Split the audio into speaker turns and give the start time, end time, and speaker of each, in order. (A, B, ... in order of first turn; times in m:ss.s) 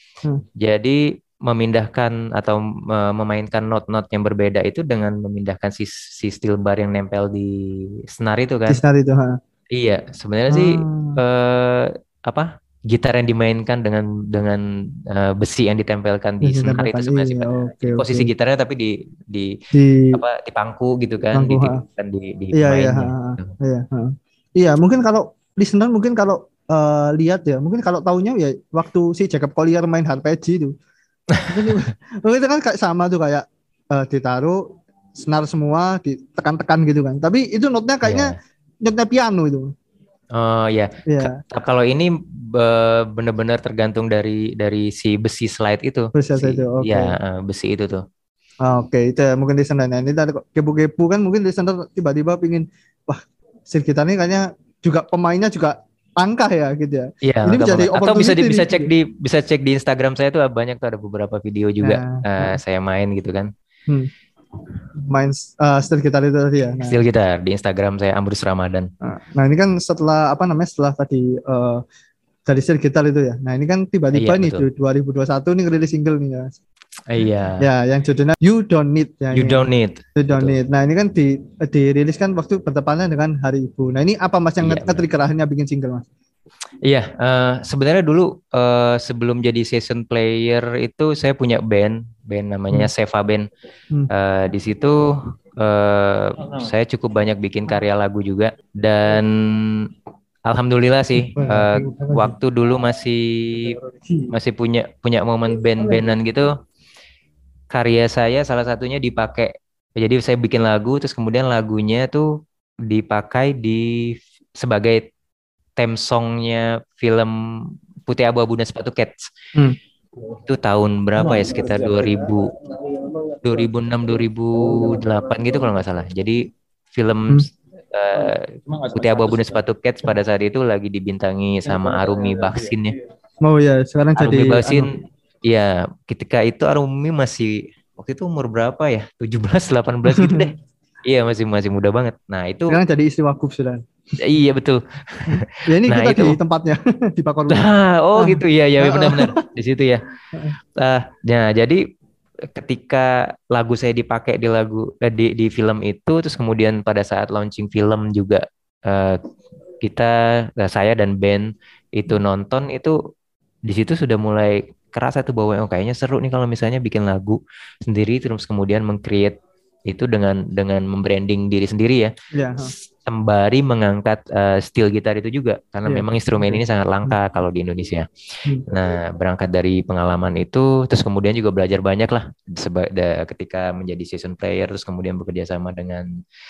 0:00.6-0:08.8 A
0:08.7-0:09.4 B
0:09.7-0:19.6 A
0:10.5-0:11.2 B
0:16.4-0:18.3 B
0:19.7-0:20.2 B
0:20.1-0:23.6 A
0:21.3-0:21.8 B
0:22.5-0:30.8 B
0:31.3-0:31.8 A
0:31.5-0:39.7 B
0:38.0-0:38.4 A
0:40.3-0:48.0 A
0:41.1-0:41.4 B
0:46.1-0:47.1 B
0:48.6-0:58.9 B
0:57.2-1:03.5 A
1:01.8-1:02.6 B
1:05.0-1:07.0 B
1:06.8-1:08.9 A
1:09.0-1:11.8 B
1:12.4-1:16.5 B
1:14.1-1:14.6 A
1:17.1-1:17.7 A
1:17.6-1:26.0 B
1:19.3-1:20.6 A
1:24.6-1:25.0 A
1:26.8-1:33.5 A
1:34.1-1:39.9 A
1:40.5-1:43.8 A
1:41.2-1:42.3 B
1:43.9-1:44.3 B
1:44.3-1:46.5 A
1:47.7-1:52.3 A
1:52.8-1:55.0 A
1:55.8-1:59.3 A
2:00.4-2:02.6 A
2:03.4-2:06.4 A
2:06.9-2:13.0 A
2:13.4-2:14.9 B
2:14.2-2:14.9 A
2:15.5-2:22.8 A
2:20.0-2:20.5 B
2:22.7-2:23.8 B
2:24.2-2:26.4 A
2:25.3-2:29.4 B
2:27.5-2:30.0 A
2:30.8-2:31.8 A
2:32.5-2:39.2 A
2:39.8-2:43.0 A
2:43.6-2:49.4 A
2:49.9-2:58.1 A
2:52.3-2:52.7 B
2:55.8-2:57.2 B
2:58.7-3:06.1 A